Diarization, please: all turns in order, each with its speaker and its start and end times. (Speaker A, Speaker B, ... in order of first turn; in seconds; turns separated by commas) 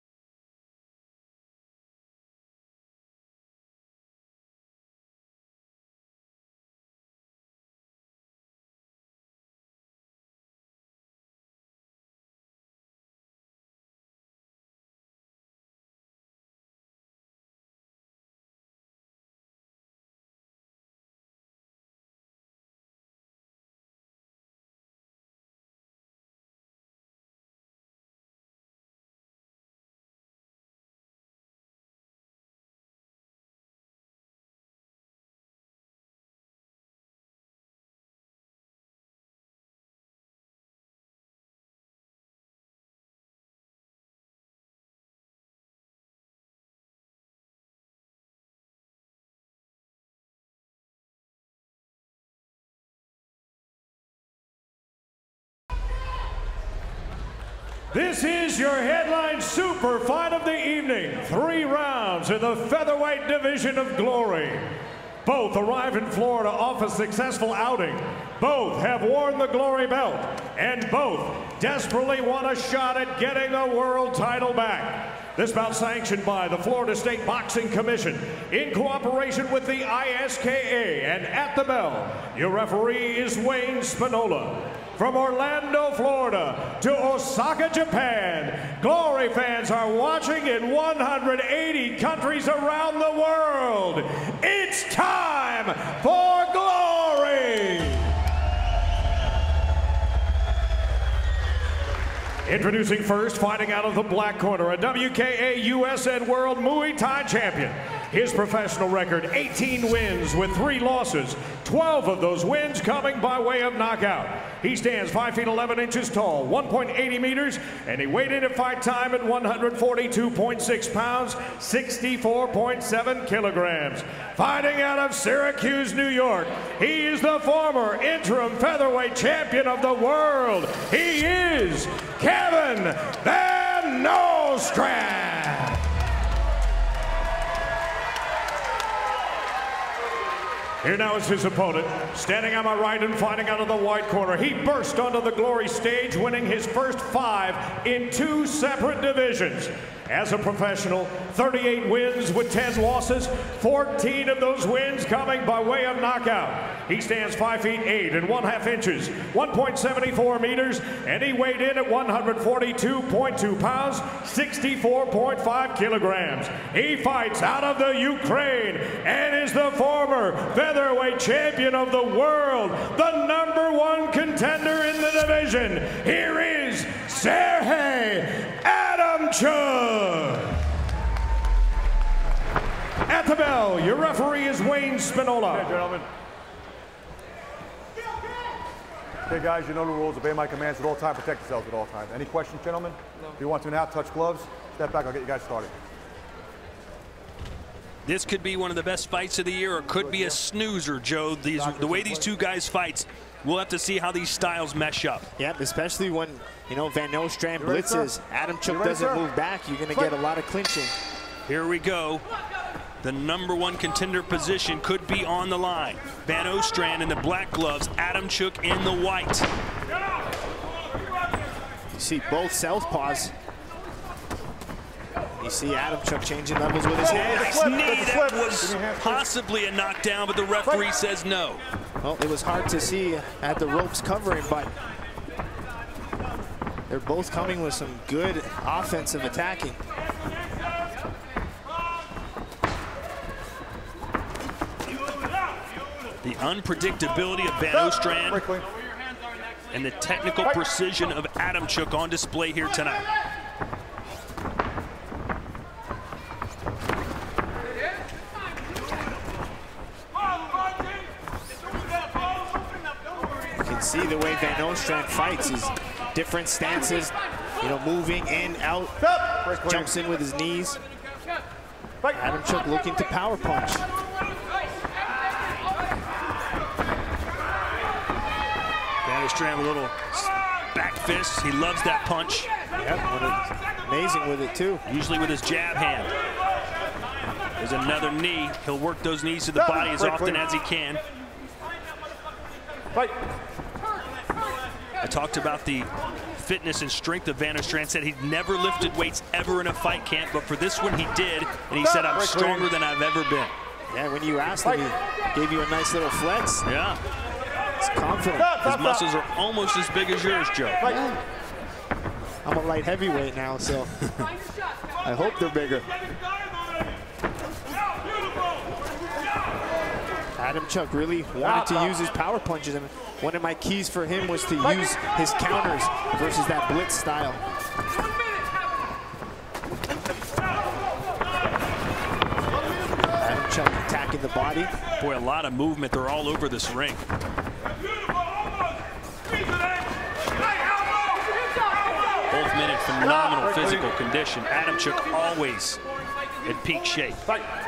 Speaker A: 57.9-98.1, Speaker A: 102.5-135.8, Speaker A: 140.8-180.6, Speaker A: 183.1-185.8, Speaker B: 185.5-186.1, Speaker B: 189.3-195.7, Speaker C: 198.0-205.3, Speaker B: 200.1-200.3, Speaker B: 201.6-202.2, Speaker D: 205.4-210.9, Speaker B: 207.6-208.1, Speaker B: 208.6-209.2, Speaker C: 211.4-212.2, Speaker C: 213.0-219.5, Speaker D: 221.9-223.3, Speaker D: 225.4-227.6, Speaker B: 227.0-229.3, Speaker C: 227.1-231.6, Speaker D: 232.0-234.7, Speaker D: 236.9-239.8, Speaker C: 246.2-248.4, Speaker B: 247.7-248.7, Speaker C: 249.7-253.0, Speaker D: 263.6-269.0, Speaker B: 269.0-269.9, Speaker D: 269.6-270.8, Speaker D: 272.1-273.9, Speaker C: 279.0-282.5, Speaker D: 282.8-284.8, Speaker C: 284.9-286.1, Speaker C: 287.6-291.0, Speaker B: 289.6-290.4, Speaker C: 295.0-303.5, Speaker B: 301.8-302.7, Speaker D: 303.9-306.6, Speaker C: 306.6-307.0, Speaker D: 307.8-308.6, Speaker B: 308.4-309.0, Speaker C: 308.6-310.9, Speaker D: 310.8-311.2, Speaker D: 312.4-313.9, Speaker D: 315.0-315.9, Speaker D: 320.4-327.4, Speaker B: 321.4-321.7, Speaker D: 333.2-334.7, Speaker C: 335.0-337.0, Speaker C: 342.3-345.8, Speaker B: 343.0-343.9, Speaker C: 346.4-347.2